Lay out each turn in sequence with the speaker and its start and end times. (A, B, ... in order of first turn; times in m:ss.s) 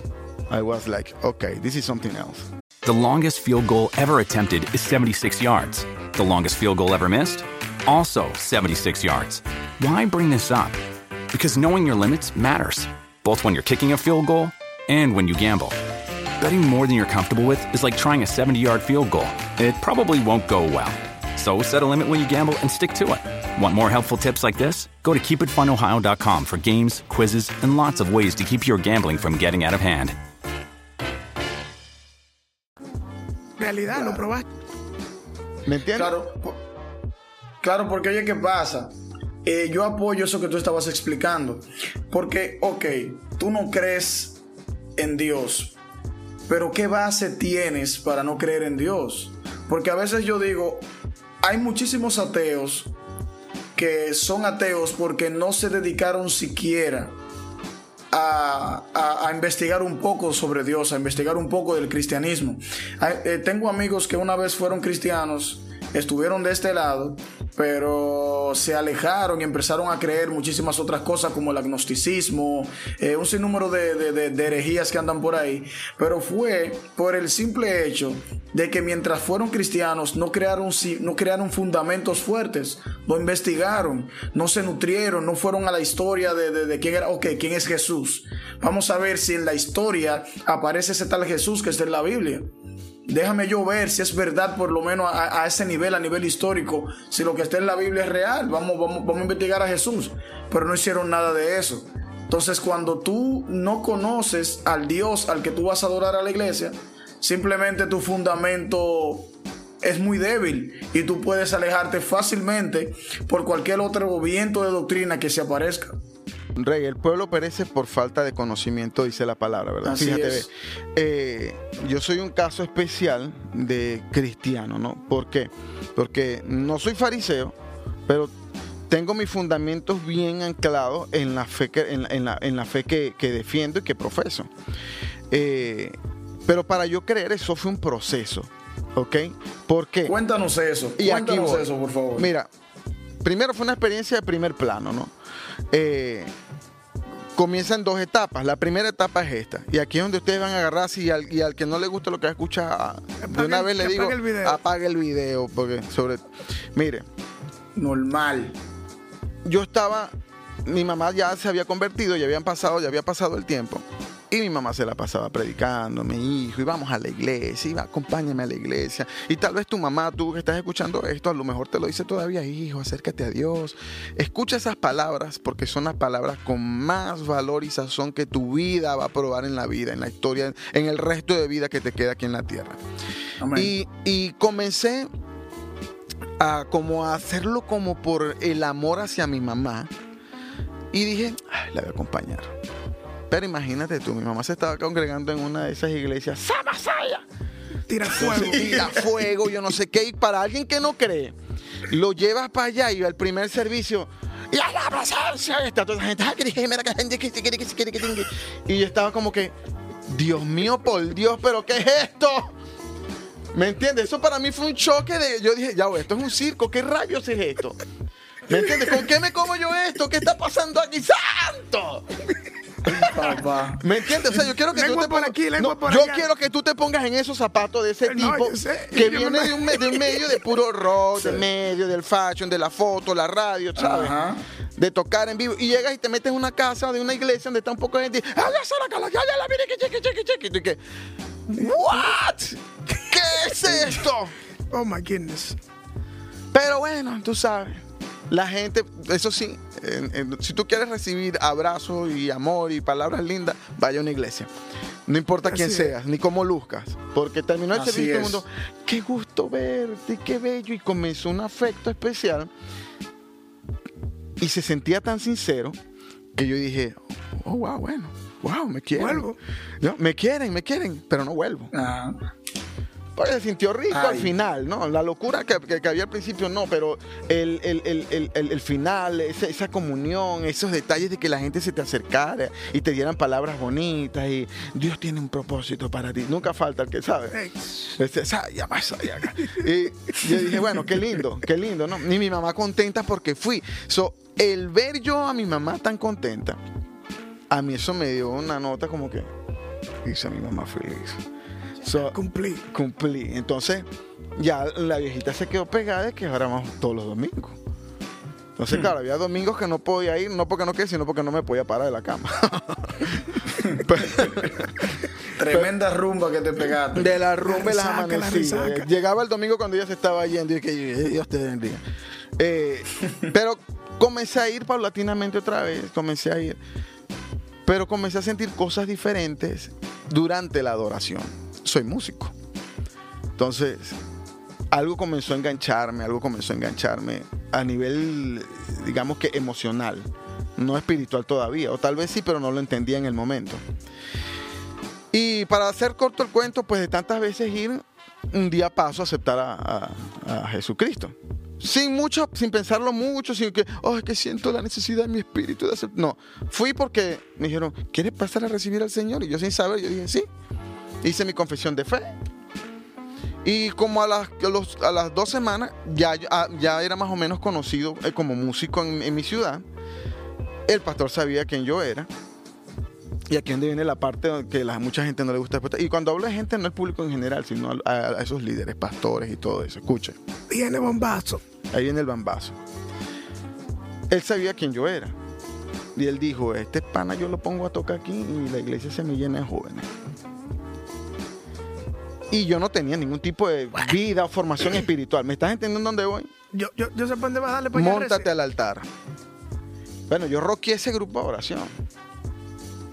0:00.5-0:02.5 A
0:02.8-0:10.8 B
0:11.3-0:15.8 B
0:16.4-0:30.1 B
0:33.6-0:34.5 C
0:35.6-0:36.1 A
0:35.9-0:36.6 D
0:37.6-0:44.4 D
0:45.0-0:45.8 D
0:46.5-0:50.9 D
0:51.4-0:52.9 D
0:53.7-0:57.2 D
0:58.1-1:32.5 D
1:33.1-1:56.0 D
1:56.6-2:07.6 A
1:59.8-2:00.4 D
2:08.1-2:08.3 A
2:08.9-2:14.5 A
2:15.3-2:20.1 A
2:20.0-2:22.3 D
2:21.0-2:22.5 A
2:23.2-2:25.1 A
2:25.7-2:26.3 A
2:27.3-2:37.0 A
2:33.2-2:34.6 C
2:37.7-2:38.6 D
2:39.4-2:40.1 A
2:40.6-3:02.8 A
3:03.4-3:03.7 D
3:03.5-3:05.1 A
3:06.4-3:09.9 A
3:10.9-3:12.5 A
3:13.3-3:17.2 A
3:17.9-3:18.7 C
3:18.0-3:21.4 A
3:18.2-3:19.0 D
3:21.9-3:29.5 A
3:30.1-3:32.6 A
3:33.5-3:37.8 A
3:38.5-3:42.2 A
3:42.8-3:44.4 D
3:42.9-3:43.1 A
3:43.8-3:54.2 A
3:44.7-3:46.3 C
3:48.0-3:50.2 C
3:51.1-3:51.4 D
3:53.8-3:54.4 D
3:54.8-4:00.8 A
4:01.5-4:04.3 A
4:04.7-4:05.6 C
4:06.5-4:14.5 A
4:15.1-4:22.5 A
4:15.5-4:15.9 C
4:17.7-4:18.4 D
4:24.4-4:25.8 A
4:26.3-4:29.3 A
4:29.0-4:29.4 C
4:29.8-4:31.7 A
4:31.7-4:32.2 D
4:33.2-4:47.4 A
4:33.9-4:34.3 D
4:47.3-4:47.9 C
4:47.9-4:56.6 A
4:57.5-4:59.3 A
5:00.0-5:01.2 A
5:01.8-5:07.6 A
5:02.1-5:02.6 C
5:08.6-5:14.8 A
5:15.4-5:17.1 D
5:16.9-5:21.8 A
5:17.4-5:18.9 C
5:22.4-5:26.6 A
5:27.6-5:32.3 A
5:33.4-5:34.0 A
5:34.7-5:43.6 A
5:45.1-6:00.3 A
6:01.0-6:02.2 A
6:03.4-6:09.6 A
6:10.7-6:12.1 A
6:13.3-6:20.2 A
6:20.5-6:21.4 C
6:21.7-6:22.6 A
6:24.1-6:25.2 A
6:25.9-6:29.9 A
6:32.3-6:36.3 A
6:36.5-6:38.3 C
6:37.7-6:38.9 A
6:40.1-6:41.7 A